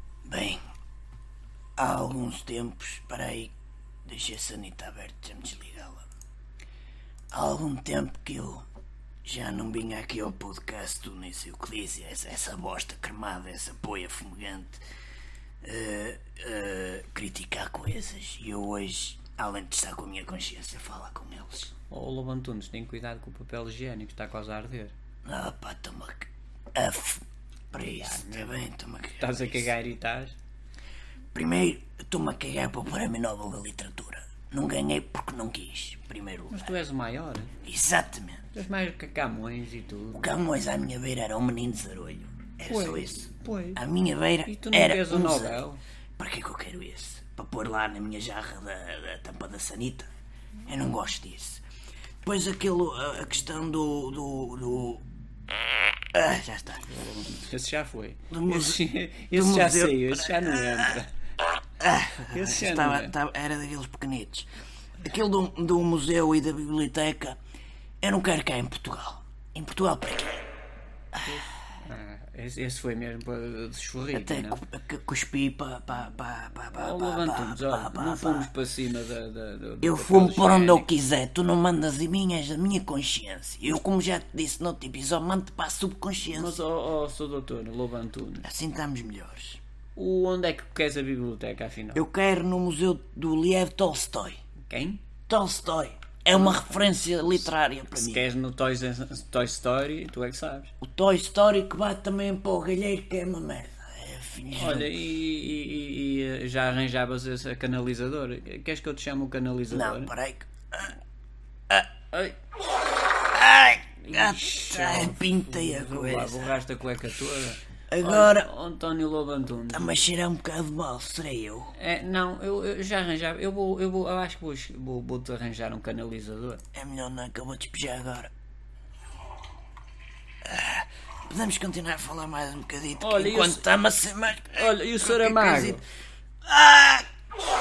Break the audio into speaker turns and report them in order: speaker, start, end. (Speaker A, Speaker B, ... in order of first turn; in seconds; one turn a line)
Speaker A: 0.2-0.6
Speaker A: 1.8-3.5
Speaker A: 4.1-6.1
Speaker A: 7.3-8.6
Speaker A: 9.2-14.8
Speaker A: 15.6-21.7
Speaker B: 21.9-24.9
Speaker A: 25.3-29.7
Speaker B: 27.8-28.6
Speaker B: 29.2-30.4
Speaker A: 31.3-36.7
Speaker B: 36.5-37.5
Speaker A: 37.6-38.4
Speaker B: 38.5-40.3
Speaker A: 40.1-45.6
Speaker B: 42.7-43.8
Speaker B: 44.5-45.8
Speaker A: 46.2-50.1
Speaker A: 50.7-51.6
Speaker A: 52.2-55.1
Speaker A: 56.1-56.9
Speaker B: 56.9-61.1
Speaker A: 58.3-58.8
Speaker A: 59.3-61.0
Speaker A: 61.8-64.5
Speaker B: 62.3-63.2
Speaker A: 65.0-67.4
Speaker A: 68.0-70.5
Speaker B: 71.2-74.7
Speaker A: 74.1-78.5
Speaker B: 76.7-80.9
Speaker A: 79.8-86.6
Speaker B: 86.3-88.5
Speaker A: 88.4-89.6
Speaker B: 90.0-92.0
Speaker A: 92.0-94.4
Speaker B: 94.7-95.0
Speaker A: 95.3-98.3
Speaker B: 96.3-100.7
Speaker A: 100.8-104.9
Speaker B: 104.6-110.1
Speaker A: 109.7-110.9
Speaker A: 113.3-116.6
Speaker B: 114.0-120.1
Speaker A: 117.9-118.5
Speaker A: 119.7-121.7
Speaker B: 121.8-126.6
Speaker A: 126.7-128.3
Speaker A: 130.4-135.8
Speaker B: 133.0-133.6
Speaker B: 134.5-135.8
Speaker A: 136.4-137.1